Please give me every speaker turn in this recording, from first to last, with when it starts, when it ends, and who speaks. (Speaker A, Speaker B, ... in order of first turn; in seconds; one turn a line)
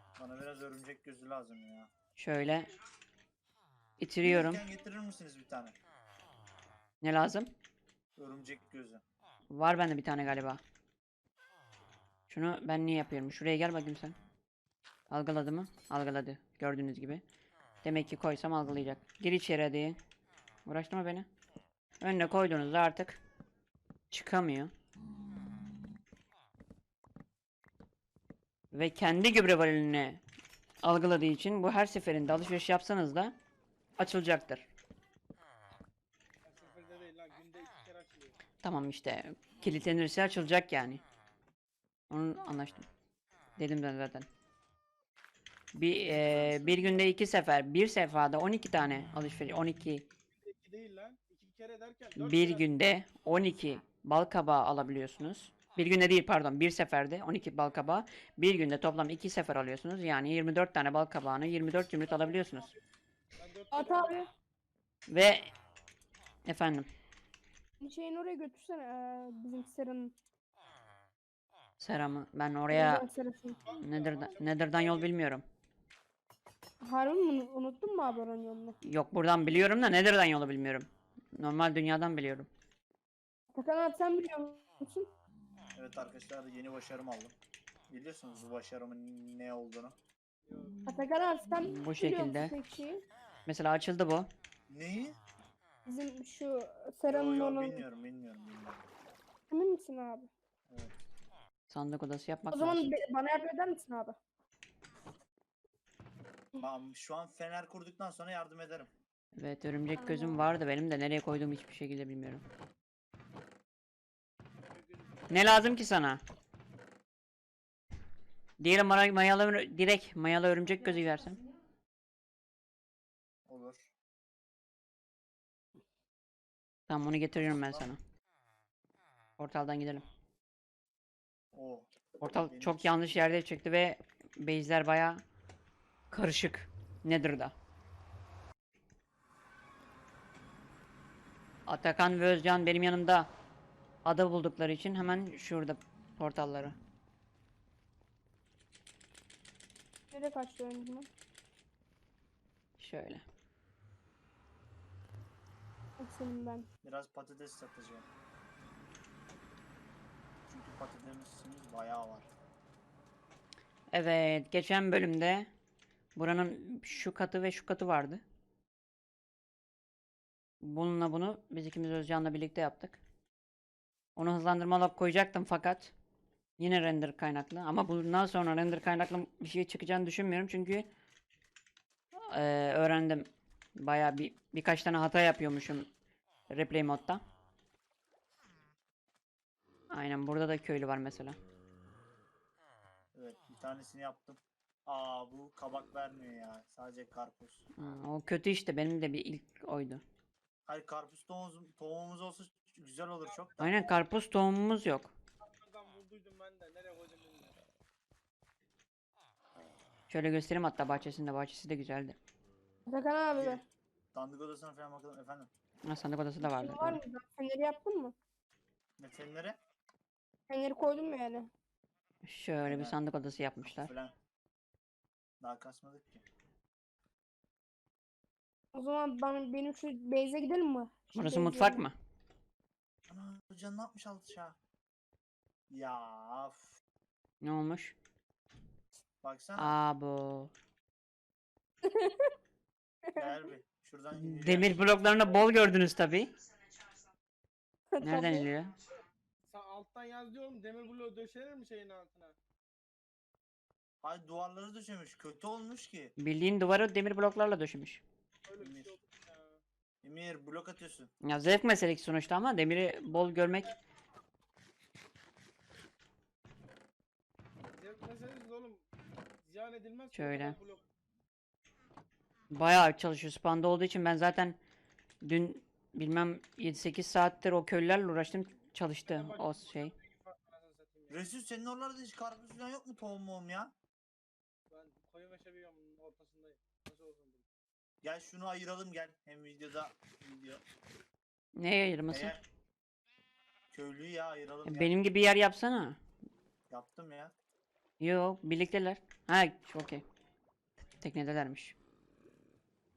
Speaker A: 0.2-1.9
Speaker B: 2.2-2.7
Speaker B: 4.0-4.6
Speaker A: 4.2-5.7
Speaker B: 7.0-7.5
Speaker A: 8.2-9.0
Speaker B: 9.5-10.6
Speaker B: 12.3-14.2
Speaker B: 15.1-17.2
Speaker B: 17.8-20.0
Speaker B: 20.6-21.3
Speaker B: 22.0-23.2
Speaker B: 24.1-24.7
Speaker B: 28.7-30.2
Speaker B: 30.8-33.3
Speaker B: 34.0-34.7
Speaker C: 36.4-38.4
Speaker B: 38.6-41.0
Speaker B: 42.1-42.9
Speaker B: 43.6-44.3
Speaker B: 45.7-50.0
Speaker A: 46.0-47.1
Speaker C: 50.4-52.7
Speaker B: 52.2-62.7
Speaker C: 62.2-62.8
Speaker C: 63.4-64.2
Speaker D: 63.7-64.3
Speaker B: 65.1-65.5
Speaker B: 66.5-66.9
Speaker D: 67.8-70.1
Speaker B: 71.8-73.0
Speaker D: 72.7-73.6
Speaker C: 73.6-75.1
Speaker B: 73.8-75.4
Speaker D: 76.8-78.8
Speaker B: 78.8-82.5
Speaker D: 83.5-85.1
Speaker A: 85.7-87.3
Speaker A: 87.9-89.9
Speaker C: 90.5-90.8
Speaker D: 90.8-93.0
Speaker B: 91.6-92.5
Speaker B: 93.5-94.3
Speaker A: 94.7-95.2
Speaker D: 95.8-97.8
Speaker A: 97.1-98.8
Speaker D: 99.5-100.3
Speaker A: 100.7-101.0
Speaker B: 101.7-102.9
Speaker D: 102.5-104.2
Speaker A: 106.6-108.9
Speaker B: 109.4-112.4
Speaker D: 110.0-110.4
Speaker C: 114.7-115.5
Speaker B: 115.3-116.2
Speaker B: 118.6-121.4
Speaker A: 123.5-123.9
Speaker B: 126.9-128.0
Speaker A: 127.5-127.8
Speaker B: 129.4-130.0
Speaker A: 131.5-133.2
Speaker B: 132.2-135.2
Speaker B: 136.1-137.5
Speaker B: 141.7-143.3
Speaker B: 144.0-146.7
Speaker D: 150.1-151.1
Speaker B: 152.8-153.2
Speaker D: 156.0-156.7
Speaker A: 156.8-158.1
Speaker A: 160.5-162.3
Speaker B: 163.9-165.5
Speaker B: 166.2-168.2
Speaker B: 170.6-173.0
Speaker B: 174.2-175.9
Speaker B: 176.6-180.9
Speaker B: 182.2-185.9
Speaker B: 186.5-187.2
Speaker B: 189.9-191.4
Speaker A: 193.1-197.6
Speaker B: 197.8-200.0
Speaker A: 200.7-203.9
Speaker B: 203.6-205.1
Speaker C: 205.4-207.6
Speaker B: 210.1-212.2
Speaker D: 212.9-213.6
Speaker A: 213.3-213.6
Speaker A: 214.1-215.5
Speaker B: 215.8-217.0
Speaker D: 216.4-218.1
Speaker A: 219.0-219.6
Speaker D: 220.5-221.5
Speaker B: 222.2-223.9
Speaker A: 222.6-223.0
Speaker A: 223.6-224.1
Speaker A: 225.4-226.2
Speaker D: 228.7-231.8
Speaker B: 231.1-231.9
Speaker A: 233.1-234.6
Speaker A: 235.7-236.8
Speaker B: 237.4-237.9
Speaker A: 239.2-239.7
Speaker B: 239.6-240.5
Speaker D: 241.8-242.3
Speaker D: 243.0-243.4
Speaker A: 243.2-244.8
Speaker B: 244.2-246.3
Speaker D: 247.9-248.5
Speaker B: 248.0-248.8
Speaker C: 249.5-252.3
Speaker A: 254.0-256.1
Speaker B: 256.2-258.0
Speaker C: 258.4-259.6
Speaker A: 258.6-258.9
Speaker A: 260.0-261.1
Speaker B: 261.2-263.7
Speaker C: 262.9-263.7
Speaker C: 267.7-268.8
Speaker C: 269.4-270.8
Speaker B: 270.1-270.6
Speaker B: 272.5-274.6
Speaker B: 275.2-279.9
Speaker C: 279.1-281.2
Speaker A: 281.1-283.7
Speaker C: 284.7-287.4
Speaker A: 288.0-290.6
Speaker B: 291.6-292.3
Speaker A: 292.1-292.4
Speaker A: 293.7-295.0
Speaker B: 294.6-296.0
Speaker A: 296.7-297.3
Speaker B: 298.0-300.0
Speaker B: 301.0-301.8